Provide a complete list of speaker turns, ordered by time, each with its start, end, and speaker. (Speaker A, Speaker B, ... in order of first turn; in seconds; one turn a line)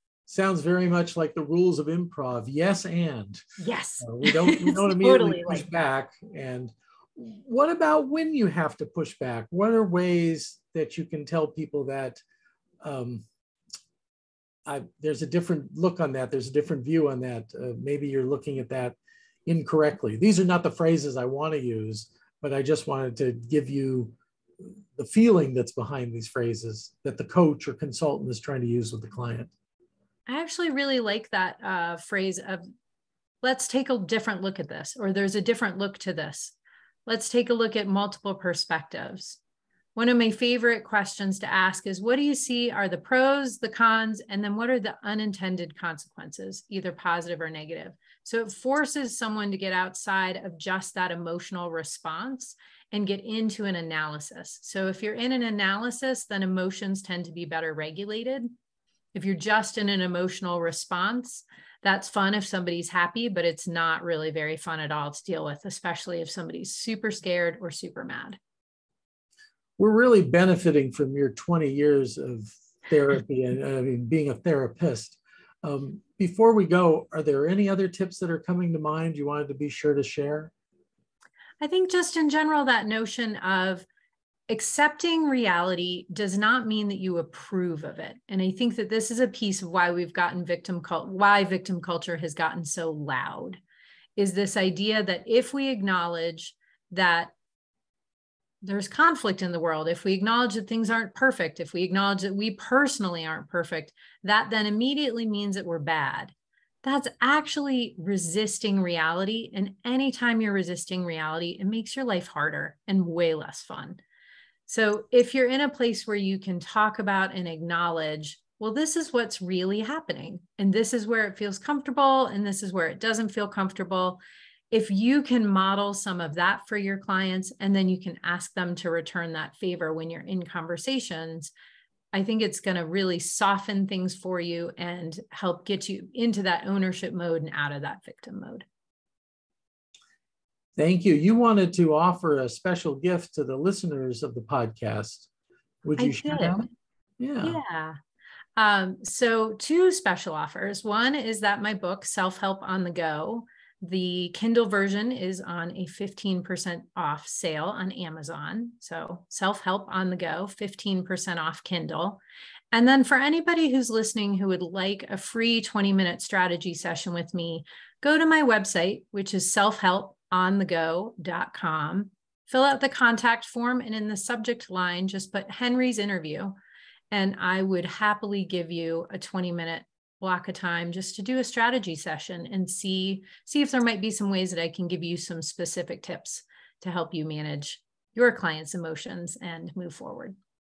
Speaker A: 0.3-3.4
Speaker B: 3.6-5.7
Speaker A: 4.0-12.2
Speaker A: 12.8-13.2
Speaker A: 14.7-24.1
Speaker A: 24.9-29.5
Speaker B: 30.3-32.6
Speaker B: 33.4-36.5
Speaker B: 37.0-39.4
Speaker B: 40.0-58.5
Speaker B: 59.1-68.4
Speaker A: 69.8-80.5
Speaker B: 81.6-83.9
Speaker B: 84.5-93.6
Speaker B: 94.2-97.3
Speaker B: 98.6-106.3
Speaker B: 106.8-114.0
Speaker B: 114.7-124.2
Speaker B: 124.7-131.5
Speaker B: 132.1-138.7
Speaker A: 140.8-145.3
Speaker A: 145.8-146.7
Speaker B: 146.0-146.6
Speaker A: 147.2-147.6
Speaker B: 147.4-148.0
Speaker B: 148.6-162.2
Speaker B: 162.7-176.5
Speaker B: 177.1-190.3